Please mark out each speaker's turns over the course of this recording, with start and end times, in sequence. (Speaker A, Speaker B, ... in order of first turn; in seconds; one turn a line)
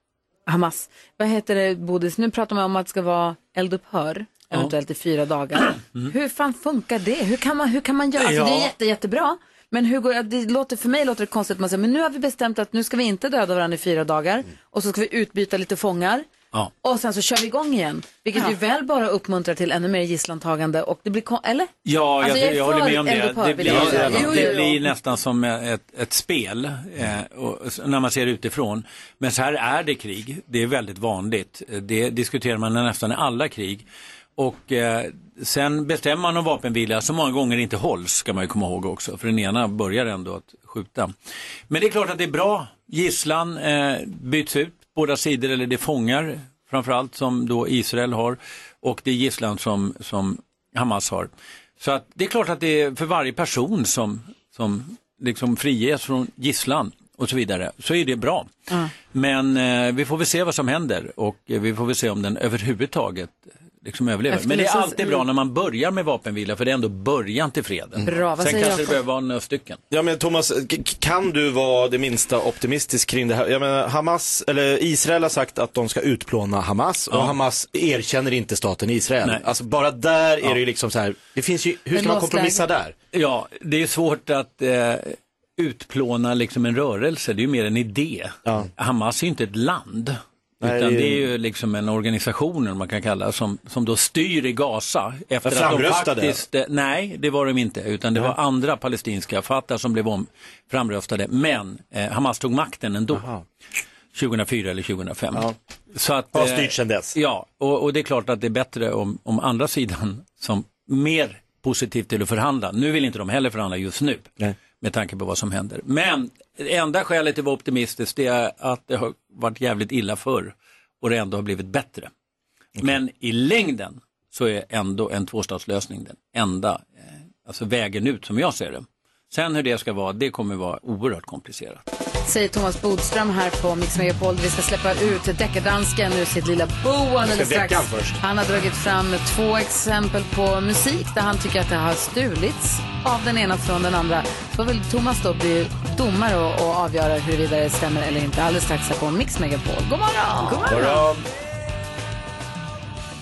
Speaker A: 0.5-16.3
Speaker B: 8.2-8.7
Speaker A: 16.8-24.8
Speaker B: 21.8-33.8
Speaker C: 23.7-24.4
Speaker B: 34.4-41.1
Speaker B: 41.7-58.5
Speaker B: 59.0-69.8
Speaker A: 64.3-65.0
Speaker A: 68.0-69.0
Speaker C: 69.9-82.9
Speaker A: 81.9-82.6
Speaker B: 83.1-103.3
Speaker C: 90.6-91.2
Speaker C: 95.4-96.4
Speaker C: 103.1-103.4
Speaker B: 104.1-122.1
Speaker C: 106.3-107.2
Speaker B: 122.8-126.9
Speaker B: 127.4-131.8
Speaker A: 132.2-151.0
Speaker C: 137.2-138.2
Speaker B: 150.6-151.2